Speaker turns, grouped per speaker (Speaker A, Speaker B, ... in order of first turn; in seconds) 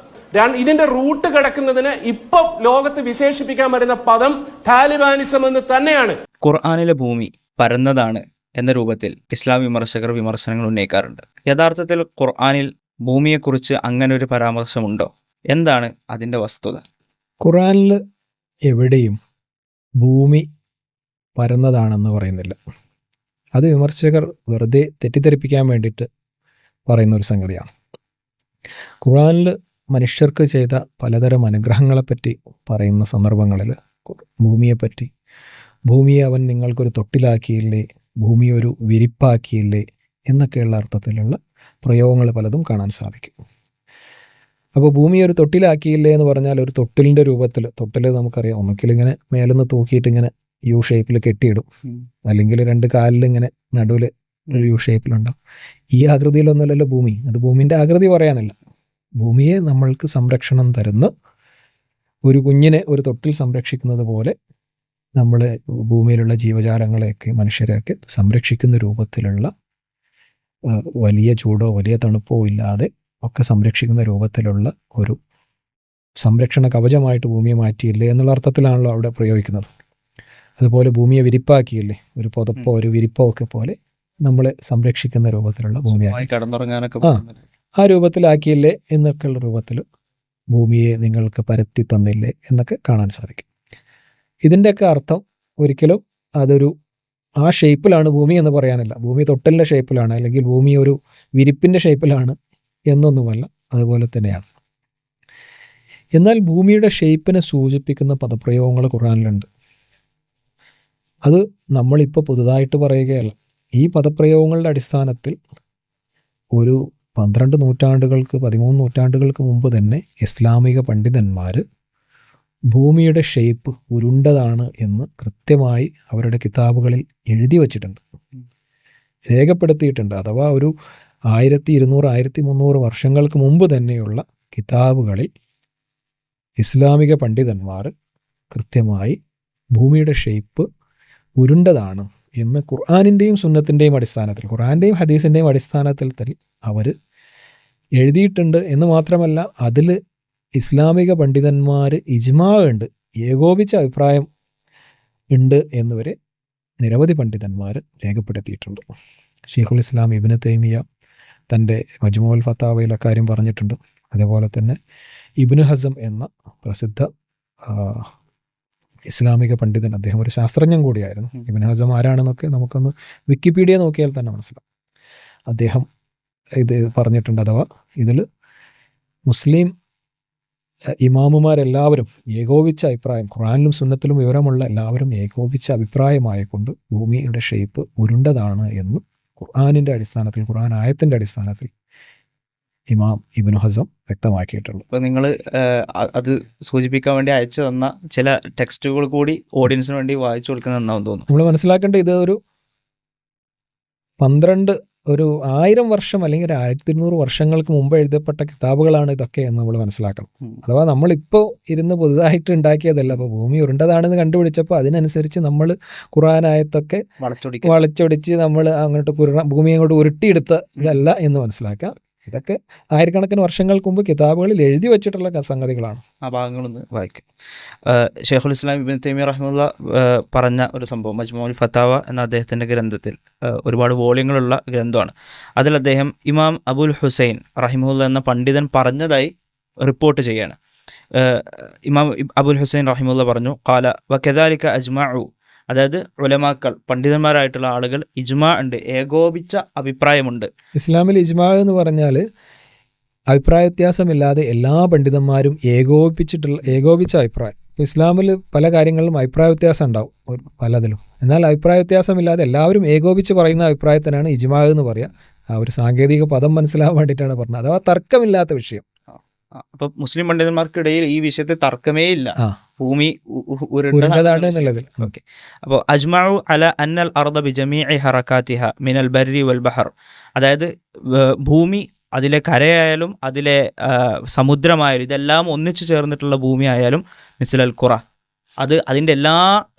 Speaker A: 0.3-6.2
Speaker B: 6.4-16.8, 85.9-87.4, 194.9-201.3, 217.2-217.8, 226.2-227.2, 227.9-240.6, 241.2-250.5, 269.5-288.0, 288.6-289.5
Speaker C: 17.4-18.0, 18.7-19.2, 20.0-20.4, 21.4-22.6, 23.6-26.1, 26.9-27.7, 29.0-35.1, 35.9-43.4, 44.8-51.6, 52.2-55.4, 55.9-58.5, 59.2-61.1, 62.3-64.3, 65.2-69.5, 70.7-75.2, 76.2-79.7, 80.6-86.3, 87.8-89.8, 90.5-93.5, 94.5-96.7, 97.4-102.3, 102.9-104.4, 106.2-109.5, 111.3-115.3, 116.6-121.6, 122.7-128.0, 129.3-130.7, 131.3-135.3, 136.6-137.9, 138.5-139.2, 139.8-140.7, 141.4-146.9, 148.0-149.9, 150.6-154.3, 155.3-156.2, 156.8-158.8, 159.5-160.8, 161.5-164.8, 165.4-167.1, 167.6-168.1, 169.1-174.6, 175.5-175.8, 176.6-178.2, 179.3-179.7, 181.0-191.7, 192.9-194.8, 201.3-202.4, 204.2-217.0, 217.6-226.0, 250.8-252.2, 253.3-268.8, 273.9-275.1